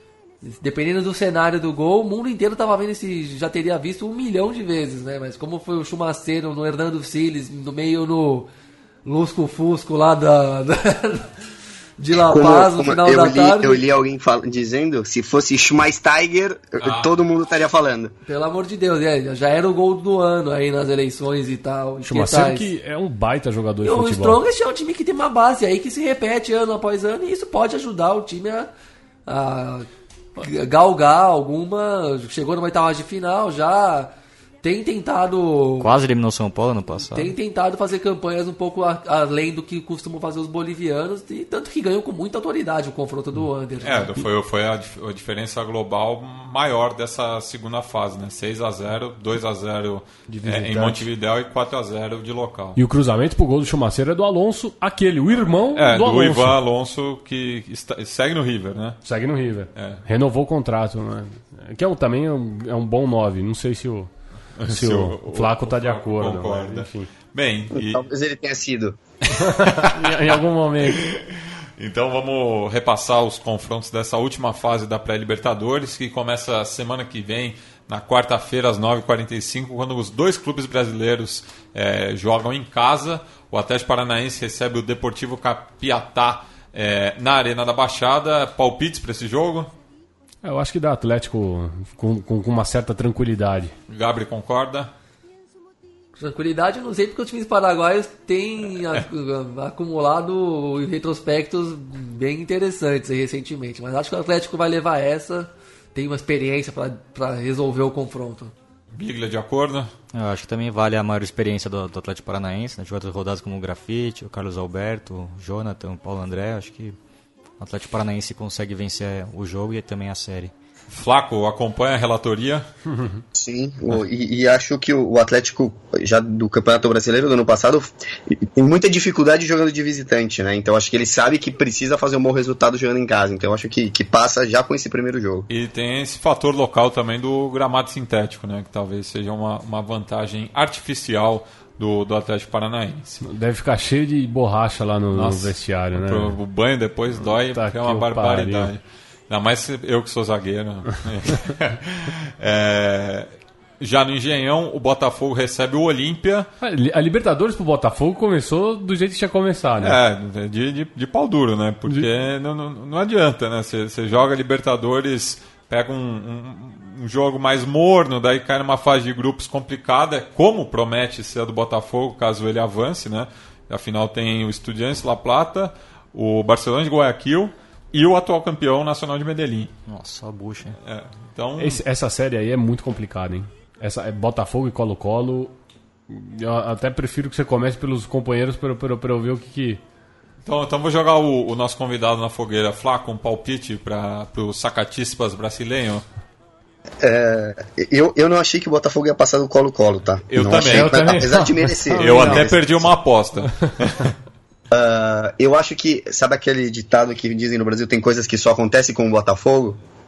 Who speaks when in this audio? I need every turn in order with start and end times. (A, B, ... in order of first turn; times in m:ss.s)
0:00.4-0:08.5 A
0:09.0-0:11.3 A
0:12.0-0:13.8 A
0:12.1-0:18.1 B
0:16.8-0:17.1 C
0:18.3-0:22.7 A
0:22.0-0:24.4 D
0:23.8-0:28.7 A
0:29.3-0:29.9 A
0:30.4-0:34.1 A
0:34.6-0:35.9 A
0:35.8-0:37.3 E
0:37.1-0:44.1 A
0:43.8-0:52.8 C
0:50.3-0:51.1 D
0:52.8-0:56.6 D
0:55.7-0:59.0 C
0:59.0-1:04.1 D
0:59.8-1:00.0 C
1:04.6-1:08.0 C
1:04.7-1:07.1 D
1:07.7-1:09.0 B
1:09.3-1:11.1 D
1:09.6-1:29.7 C
1:30.4-1:33.7 D
1:33.9-1:34.9 C
1:36.2-1:48.5 A
1:48.9-1:49.9 C
1:50.1-1:57.0 E
1:57.6-2:00.5 E
2:00.9-2:02.7 C
2:02.9-2:03.2 D
2:03.3-2:15.5 B
2:15.5-2:23.2 C
2:23.2-2:26.4 D
2:25.1-2:36.5 C
2:27.2-2:28.7 D
2:36.6-2:40.0 D
2:39.8-2:59.7 C
2:59.9-3:00.8 E
3:00.8-3:01.8 C
3:01.6-3:05.6 D
3:06.1-3:09.8 D
3:10.4-3:16.0 C
3:17.0-3:22.9 B
3:20.3-3:21.4 C
3:20.5-3:22.5 D
3:21.9-3:24.1 C
3:24.7-3:29.8 B